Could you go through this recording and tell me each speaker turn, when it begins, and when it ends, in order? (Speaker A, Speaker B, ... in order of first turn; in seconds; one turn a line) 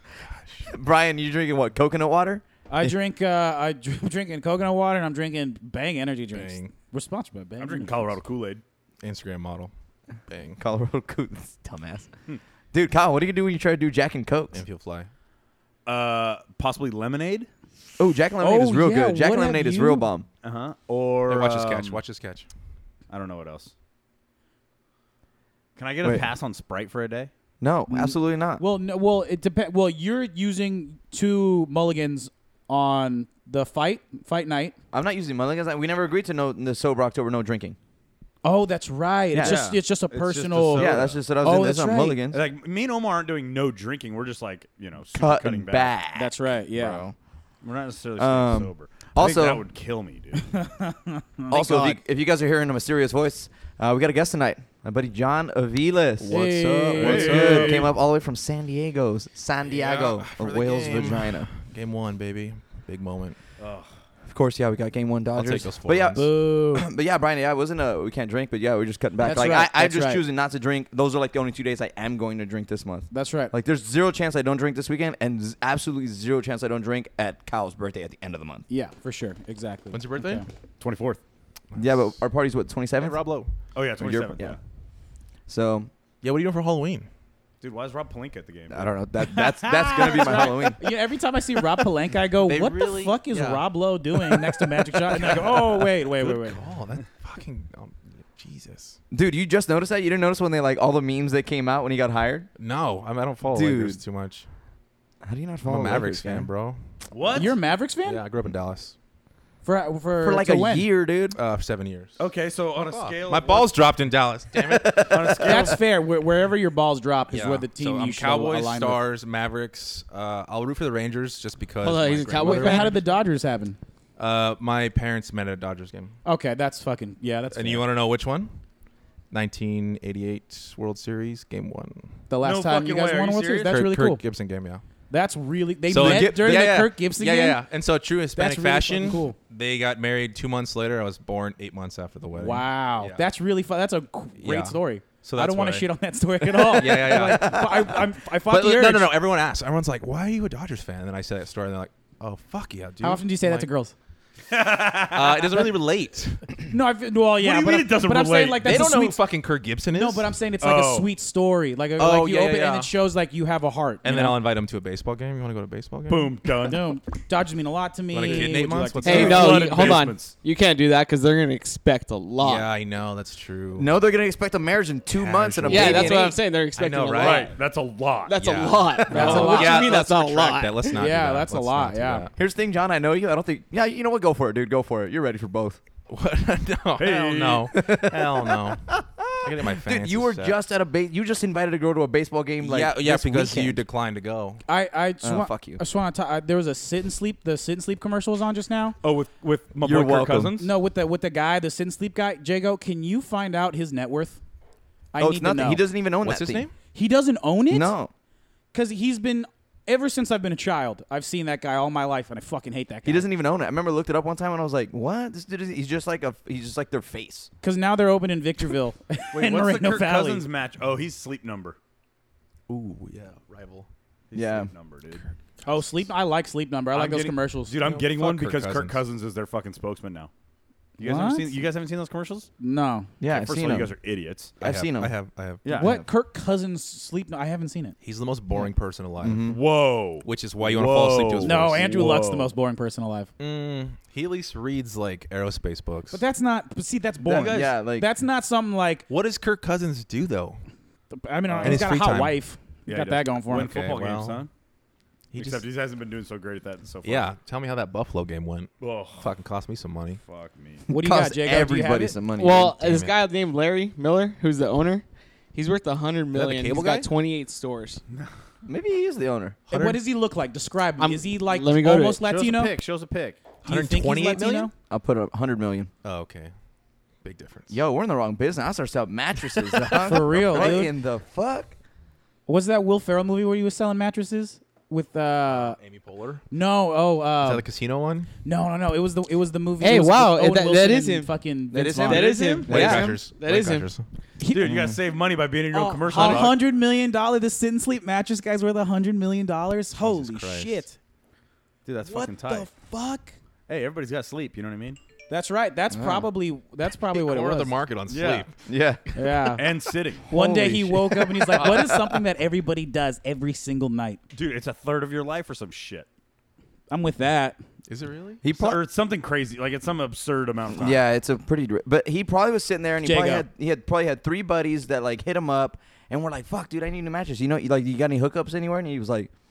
Speaker A: 0.3-0.7
Speaker B: 0.7-3.0
Speaker C: 2.7-8.2
Speaker A: 6.3-6.7
Speaker D: 7.6-8.6
Speaker A: 9.0-9.7
Speaker A: 10.3-10.6
Speaker B: 10.6-12.1
Speaker B: 12.7-14.6
Speaker A: 14.5-15.1
Speaker D: 15.8-17.5
Speaker B: 18.0-20.2
Speaker C: 18.4-20.1
Speaker D: 20.4-22.0
Speaker A: 21.3-22.5
Speaker D: 23.1-23.7
Speaker D: 25.8-27.3
Speaker B: 27.6-28.6
Speaker C: 27.9-34.7
Speaker B: 34.9-37.8
Speaker C: 38.4-42.2
Speaker B: 39.3-39.7
Speaker D: 39.4-41.2
Speaker B: 40.7-42.4
Speaker D: 42.3-46.0
Speaker B: 45.1-47.1
Speaker C: 46.1-47.1
Speaker D: 47.6-50.5
Speaker B: 48.2-49.6
Speaker C: 50.5-52.0
Speaker B: 51.5-61.5
Speaker C: 56.3-57.9
Speaker A: 56.3-57.6
Speaker D: 56.9-57.9
Speaker A: 59.7-63.4
Speaker D: 63.6-63.9
Speaker B: 64.3-78.7
Speaker A: 65.3-66.3
Speaker C: 66.1-66.9
Speaker C: 69.2-70.2
Speaker C: 73.1-73.5
Speaker C: 78.7-80.5
Speaker A: 79.9-80.4
Speaker D: 80.8-81.2
Speaker A: 81.7-82.2
Speaker B: 81.8-83.2
Speaker A: 83.0-83.5
Speaker D: 83.7-84.6
Speaker B: 84.0-84.6
Speaker B: 85.5-85.9
Speaker A: 86.2-87.1
Speaker D: 87.6-88.9
Speaker B: 88.7-90.8
Speaker C: 89.2-96.6
Speaker A: 92.4-93.7
Speaker A: 94.2-94.5
Speaker A: 95.1-99.0
Speaker B: 99.1-102.5
Speaker A: 102.6-104.5
Speaker B: 103.5-104.0
Speaker B: 105.2-106.5
Speaker A: 105.6-106.8
Speaker D: 107.1-107.5
Speaker C: 107.3-108.2
Speaker A: 108.0-108.9
Speaker C: 109.6-110.9
Speaker B: 110.2-111.4
Speaker A: 111.3-112.2
Speaker D: 112.2-113.7
Speaker A: 112.8-115.3
Speaker B: 114.7-115.7
Speaker D: 115.0-115.8
Speaker C: 115.4-119.1
Speaker A: 117.3-123.0
Speaker E: 121.8-123.0
Speaker C: 122.4-123.8
Speaker A: 124.2-126.1
Speaker C: 126.2-127.9
Speaker A: 127.5-128.5
Speaker A: 129.3-132.1
Speaker C: 132.3-134.2
Speaker D: 132.4-133.8
Speaker A: 133.7-134.8
Speaker C: 135.1-137.6
Speaker A: 135.9-143.3
Speaker B: 135.9-136.4
Speaker C: 138.3-139.3
Speaker C: 142.3-149.2
Speaker A: 144.4-145.9
Speaker A: 146.6-147.8
Speaker B: 146.8-147.9
Speaker A: 148.4-153.7
Speaker C: 153.0-153.9
Speaker D: 154.5-155.7
Speaker A: 155.1-156.5
Speaker C: 156.7-159.2
Speaker D: 157.4-158.7
Speaker A: 158.6-160.3
Speaker C: 159.9-164.4
Speaker D: 160.6-161.1
Speaker A: 162.0-162.9
Speaker A: 164.0-166.6
Speaker D: 166.1-166.8
Speaker C: 166.7-169.6
Speaker A: 168.1-170.0
Speaker E: 169.0-172.7
Speaker D: 169.1-170.3
Speaker A: 172.4-173.9
Speaker B: 173.8-176.4
Speaker A: 175.1-176.2
Speaker E: 175.7-177.5
Speaker A: 176.7-177.5
Speaker D: 177.2-178.4
Speaker E: 178.2-181.0
Speaker A: 178.4-182.3
Speaker C: 179.1-179.9
Speaker C: 180.9-182.3
Speaker B: 182.3-185.8
Speaker A: 186.1-188.9
Speaker D: 187.0-187.7
Speaker B: 187.7-193.8
Speaker A: 189.4-190.6
Speaker A: 192.6-194.6
Speaker C: 194.7-199.0
Speaker B: 195.2-195.8
Speaker D: 199.0-200.7
Speaker B: 199.8-200.5
Speaker C: 200.6-204.4
Speaker C: 205.1-206.0
Speaker B: 205.2-206.7
Speaker A: 206.2-206.7
Speaker C: 206.8-207.9
Speaker B: 207.7-208.1
Speaker C: 208.7-213.3
Speaker B: 213.0-217.5
Speaker C: 217.6-220.4
Speaker D: 219.3-221.8
Speaker A: 222.7-223.9
Speaker D: 224.3-225.2
Speaker B: 224.3-224.7
Speaker A: 225.6-225.9
Speaker C: 225.6-227.8
Speaker D: 226.9-230.3
Speaker A: 227.8-229.0
Speaker C: 231.0-231.6
Speaker D: 231.0-232.5
Speaker C: 232.6-233.1
Speaker B: 233.2-233.9
Speaker D: 233.2-234.5
Speaker B: 234.6-235.1
Speaker A: 234.6-236.1
Speaker D: 235.6-235.9
Speaker C: 235.7-238.0
Speaker A: 238.0-239.5
Speaker B: 239.2-239.6
Speaker D: 239.4-242.5
Speaker A: 240.1-241.9
Speaker C: 241.4-243.3
Speaker A: 243.4-246.2
Speaker C: 246.1-249.1
Speaker D: 247.2-247.7
Speaker B: 247.5-248.1
Speaker A: 249.1-250.6
Speaker C: 251.1-253.7
Speaker D: 251.5-251.9
Speaker A: 251.6-252.4
Speaker D: 252.8-254.5
Speaker A: 253.5-254.4
Speaker A: 255.3-255.6
Speaker D: 255.3-257.3
Speaker A: 257.0-260.2
Speaker D: 258.8-259.3
Speaker D: 260.2-260.9
Speaker C: 260.9-262.2
Speaker B: 260.9-262.8
Speaker E: 262.4-268.0
Speaker A: 262.8-263.2
Speaker A: 266.3-267.1
Speaker B: 268.6-269.6
Speaker C: 269.7-272.8
Speaker A: 269.7-270.0
Speaker E: 271.0-272.2
Speaker D: 272.2-273.4
Speaker C: 273.6-274.7
Speaker A: 273.6-274.7
Speaker B: 274.9-275.9
Speaker A: 276.0-276.5
Speaker A: 277.2-277.8
Speaker B: 277.7-281.8
Speaker A: 279.9-280.6
Speaker C: 280.1-280.9
Speaker C: 282.5-285.8
Speaker A: 285.5-286.4
Speaker C: 286.5-287.6
Speaker A: 287.4-288.3
Speaker C: 288.4-291.9
Speaker E: 289.8-293.9
Speaker B: 291.7-293.0
Speaker D: 292.0-292.7
Speaker A: 292.6-294.1
Speaker C: 294.4-294.8
Speaker D: 294.5-296.6
Speaker A: 294.6-295.0
Speaker C: 295.7-301.0
Speaker E: 296.1-296.5
Speaker A: 300.0-300.8
Speaker D: 301.8-302.7
Speaker C: 302.0-303.3
Speaker D: 303.7-305.0
Speaker C: 305.3-307.7
Speaker B: 305.9-306.3
Speaker A: 307.1-308.6
Speaker D: 308.1-308.5
Speaker B: 308.7-309.0
Speaker C: 309.1-309.6
Speaker D: 309.5-311.9
Speaker C: 310.2-314.2
Speaker D: 314.3-316.1
Speaker C: 316.9-317.6
Speaker A: 317.9-318.4
Speaker B: 318.4-318.8
Speaker D: 318.5-321.0
Speaker B: 320.7-329.3
Speaker C: 323.0-323.5